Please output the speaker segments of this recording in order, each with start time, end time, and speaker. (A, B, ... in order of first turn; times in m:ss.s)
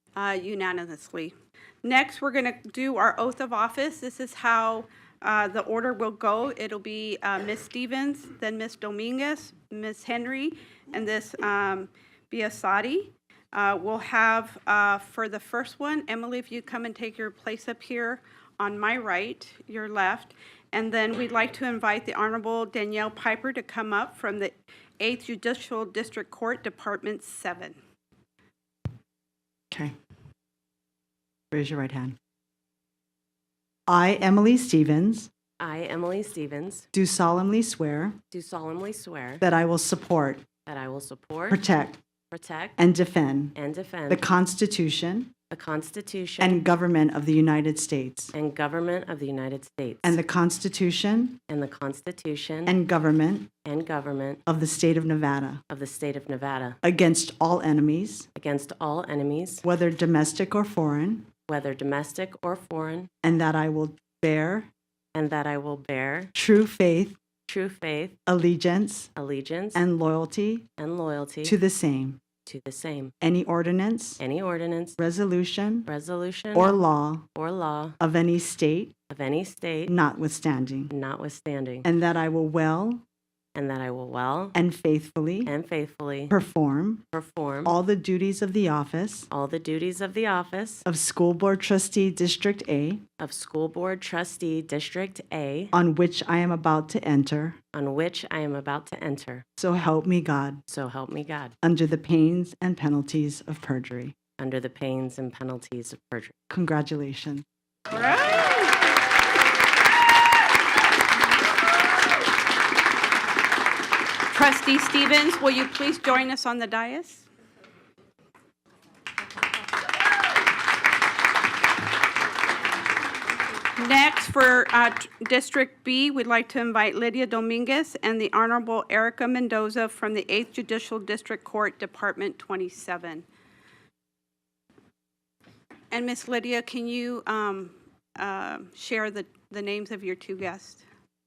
0:00.2-0:27.8 A
0:31.5-0:32.2 B
0:33.9-0:35.3 B
0:35.6-0:36.9 C
0:36.9-0:38.2 B
0:38.3-0:39.4 C
0:39.4-0:40.4 B
0:40.7-0:41.6 C
0:41.5-0:42.0 B
0:42.3-0:42.8 C
0:42.8-0:43.6 B
0:43.6-0:44.2 C
0:44.1-0:45.3 B
0:45.5-0:46.6 C
0:46.4-0:48.3 B
0:48.3-0:50.2 C
0:50.0-0:51.4 B
0:51.5-0:52.8 C
0:52.7-0:53.5 B
0:53.6-0:54.4 C
0:54.5-0:55.6 B
0:55.7-0:56.8 C
0:56.8-0:58.3 B
0:58.3-0:59.6 C
0:59.6-1:01.3 B
1:01.5-1:03.1 C
1:03.2-1:04.7 B
1:05.2-1:06.3 C
1:06.3-1:07.2 B
1:07.5-1:08.2 C
1:08.2-1:09.1 B
1:09.2-1:09.8 C
1:09.8-1:10.7 B
1:10.8-1:11.6 C
1:11.4-1:12.2 B
1:12.4-1:13.1 C
1:13.2-1:14.2 B
1:14.2-1:15.0 C
1:15.0-1:15.9 B
1:15.9-1:16.8 C
1:16.5-1:17.3 B
1:17.3-1:18.0 C
1:18.0-1:18.9 B
1:19.1-1:19.9 C
1:19.9-1:20.9 B
1:20.9-1:21.9 C
1:21.8-1:23.0 B
1:23.6-1:24.6 C
1:24.5-1:25.5 B
1:25.5-1:26.3 C
1:26.3-1:27.1 B
1:27.1-1:27.8 C
1:27.6-1:29.3 B
1:29.3-1:30.8 C
1:30.8-1:33.0 B
1:33.2-1:35.7 C
1:35.7-1:37.6 B
1:37.7-1:39.4 C
1:39.6-1:40.6 B
1:40.7-1:41.5 C
1:41.6-1:44.2 B
1:44.4-1:46.3 C
1:46.5-1:47.4 B
1:47.9-1:48.8 A
1:54.3-1:57.3 A
2:03.8-2:13.2 A
2:15.9-2:20.8 A